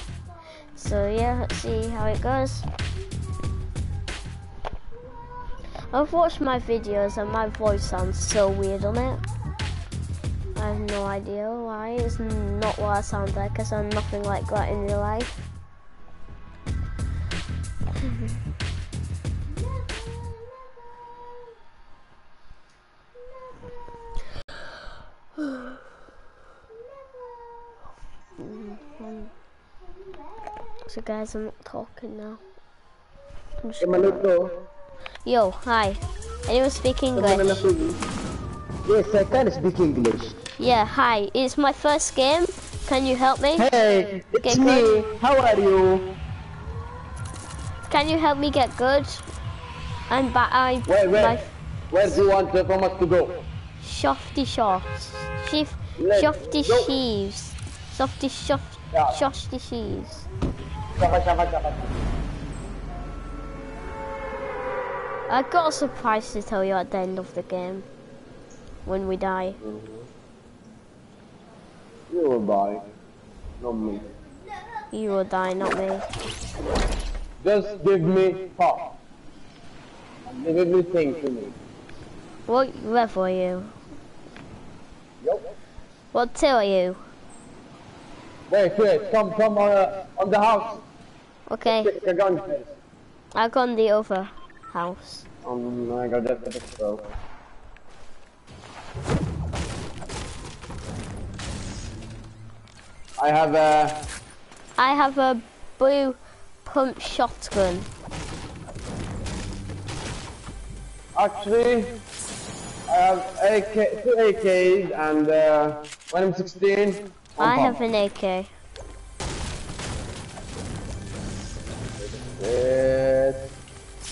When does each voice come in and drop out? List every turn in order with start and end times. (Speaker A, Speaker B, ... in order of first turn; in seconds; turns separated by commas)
Speaker A: 0.7-2.6, Speaker A: 5.9-9.2, Speaker A: 10.6-15.4, Speaker A: 28.4-29.3, Speaker A: 30.9-32.4, Speaker A: 33.6-34.2, Speaker B: 33.8-34.6, Speaker A: 35.2-37.6, Speaker B: 37.1-38.0, Speaker B: 38.9-40.3, Speaker A: 40.6-43.7, Speaker B: 43.6-46.1, Speaker A: 44.4-44.9, Speaker A: 47.9-49.2, Speaker A: 50.1-51.5, Speaker B: 50.9-51.4, Speaker B: 51.9-53.4, Speaker A: 53.8-60.2, Speaker B: 56.0-56.9, Speaker B: 58.9-59.2, Speaker B: 60.9-62.0, Speaker A: 65.3-67.8, Speaker A: 68.8-69.6, Speaker B: 69.6-70.1, Speaker B: 72.1-72.9, Speaker B: 73.6-74.1, Speaker A: 74.9-76.1, Speaker B: 77.4-79.0, Speaker B: 80.2-81.5, Speaker A: 82.5-83.7, Speaker B: 85.2-85.5, Speaker A: 86.1-87.0, Speaker B: 88.5-90.8, Speaker A: 91.5-91.9, Speaker B: 91.6-92.7, Speaker A: 93.3-95.2, Speaker B: 95.4-97.1, Speaker B: 103.2-104.1, Speaker A: 104.8-107.9, Speaker B: 111.1-112.0, Speaker B: 112.9-117.8, Speaker A: 117.4-118.5, Speaker B: 122.0-123.5